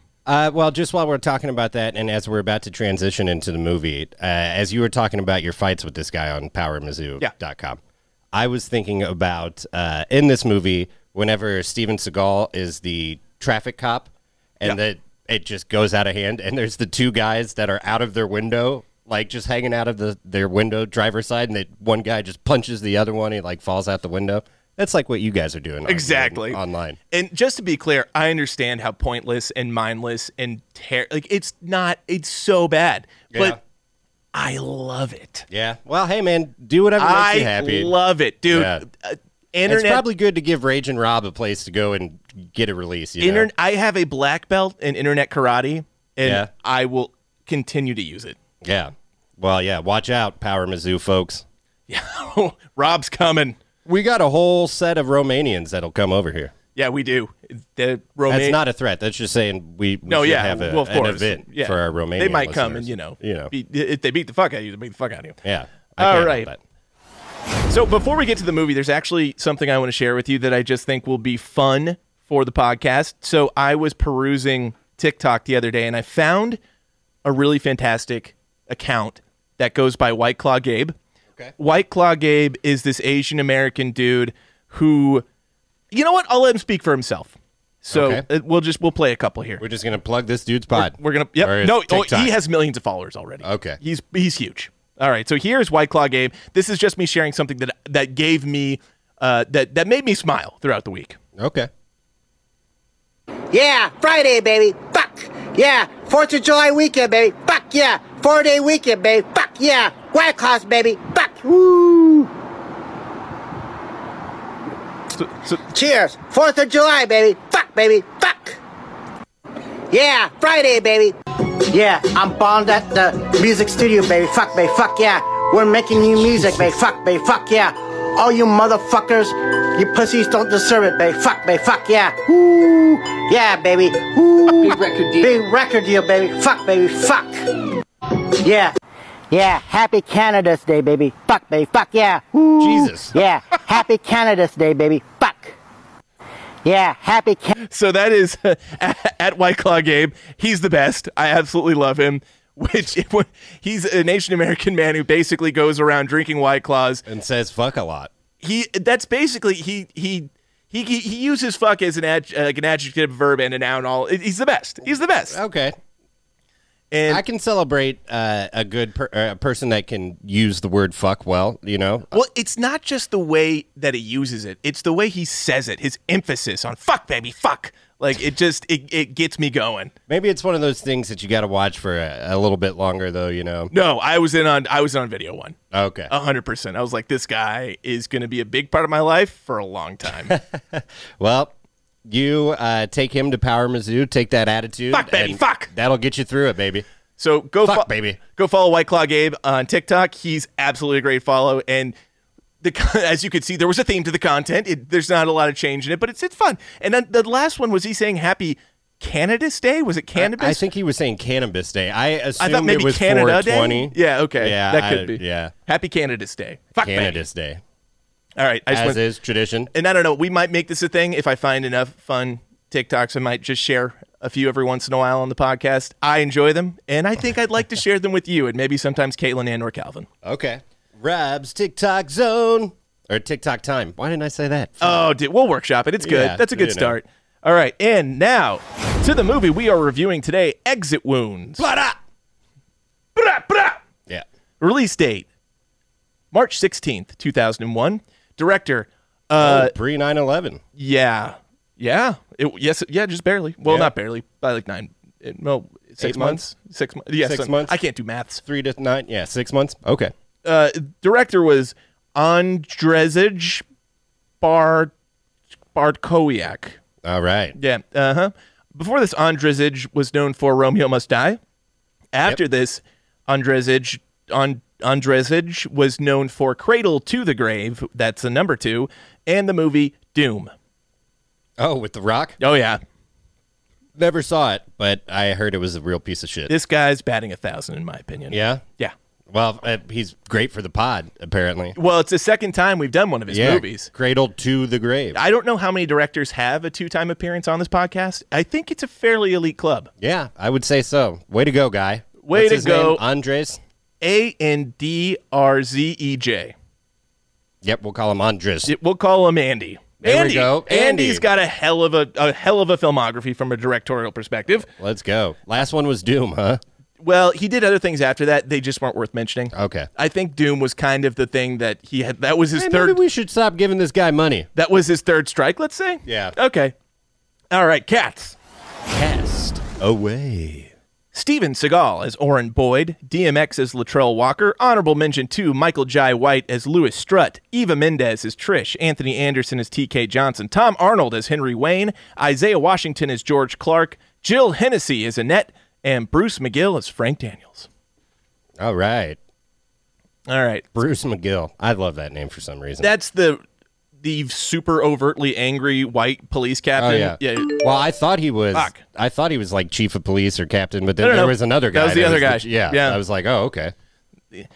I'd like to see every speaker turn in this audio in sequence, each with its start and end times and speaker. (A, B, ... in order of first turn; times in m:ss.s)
0:00.2-0:07.8 A
0:08.3-0:27.0 A
0:25.8-0:26.6 B
0:27.1-0:33.6 B
0:33.3-0:33.6 A
0:34.3-0:35.5 B
0:35.5-0:37.9 A
0:37.0-0:40.0 B
0:38.5-0:38.8 A
0:39.7-0:43.5 A
0:43.2-0:48.4 B
0:46.2-0:46.5 A
0:48.6-0:51.4 A
0:51.9-0:53.6 B
0:53.8-0:56.5 A
0:56.8-0:58.6 B
0:58.3-1:03.5 A
1:00.1-1:05.4 B
1:05.4-1:06.6 A
1:06.0-1:06.5 B
1:07.7-1:16.6 B
1:17.2-1:20.9 B
1:21.6-1:25.2 B
1:25.9-1:29.6 B
1:27.9-1:28.2 A
1:29.6-1:32.4 A
1:30.7-1:41.2 B
1:33.4-1:33.8 A
1:41.4-1:41.7 A
1:43.5-1:52.3 C
1:55.2-1:55.6 B
1:55.7-1:58.6 C
1:59.9-2:17.4 C
2:18.2-2:18.7 C
2:19.3-2:25.6 C
2:22.6-2:23.2 A
2:26.6-2:27.6 C
2:27.6-2:37.0 B
2:37.0-2:38.1 A
2:38.4-2:45.4 B
2:45.3-2:45.8 A
2:46.9-2:47.2 B
2:47.1-2:52.2 A
2:52.1-2:59.9 B
3:00.1-3:03.7 A
3:03.7-3:05.6 B
3:05.7-3:06.1 A
3:06.1-3:10.4 B
3:10.3-3:11.5 A
3:12.0-3:16.8 A
3:14.9-3:15.7 B
3:17.2-3:22.0 B
3:17.6-3:18.2 A
3:22.6-3:30.6 B
3:30.2-3:35.5 A
3:32.4-3:37.2 B
3:36.8-3:37.6 A
3:38.4-3:39.0 B
3:38.7-3:39.7 A
3:39.7-3:50.1 B
3:50.2-3:55.0 A
3:54.8-4:01.6 B
3:56.0-3:57.0 A
4:01.6-4:02.0 A
4:03.2-4:03.8 B
4:04.6-4:05.3 B
4:06.3-4:09.7 B
4:09.4-4:10.6 A
4:10.8-4:18.4 B
4:13.6-4:13.9 A
4:16.0-4:16.4 A
4:17.2-4:17.8 A
4:18.4-4:20.1 A
4:20.4-4:23.6 B
4:24.4-4:24.9 B
4:25.7-4:26.8 B
4:27.0-4:27.6 A
4:27.6-4:31.4 B
4:32.1-4:40.5 B
4:41.6-4:42.4 A
4:42.4-4:42.8 B
4:44.0-4:46.5 A
4:46.5-4:48.9 B
4:48.3-4:48.6 A
4:49.3-4:51.8 A
4:51.8-4:53.9 B
4:53.3-4:55.2 A
4:55.1-4:59.9 B
5:00.0-5:03.6 A
5:02.2-5:03.0 B
5:04.0-5:06.5 B
5:07.6-5:08.7 A
5:08.6-5:14.7 B
5:10.0-5:11.2 A
5:14.7-5:16.6 A
5:17.0-5:23.0 B
5:19.5-5:19.9 A
5:22.6-5:24.5 A
5:24.6-5:26.7 B
5:26.0-5:26.4 A
5:27.5-5:28.4 B
5:28.9-5:30.7 A
5:31.1-5:47.7 B
5:48.6-5:49.2 A
5:50.3-5:50.6 B
5:50.7-5:52.9 A
5:52.8-5:53.4 B
5:54.0-5:57.6 B
5:56.8-6:03.7 A
5:58.5-5:58.8 B
6:01.0-6:03.0 B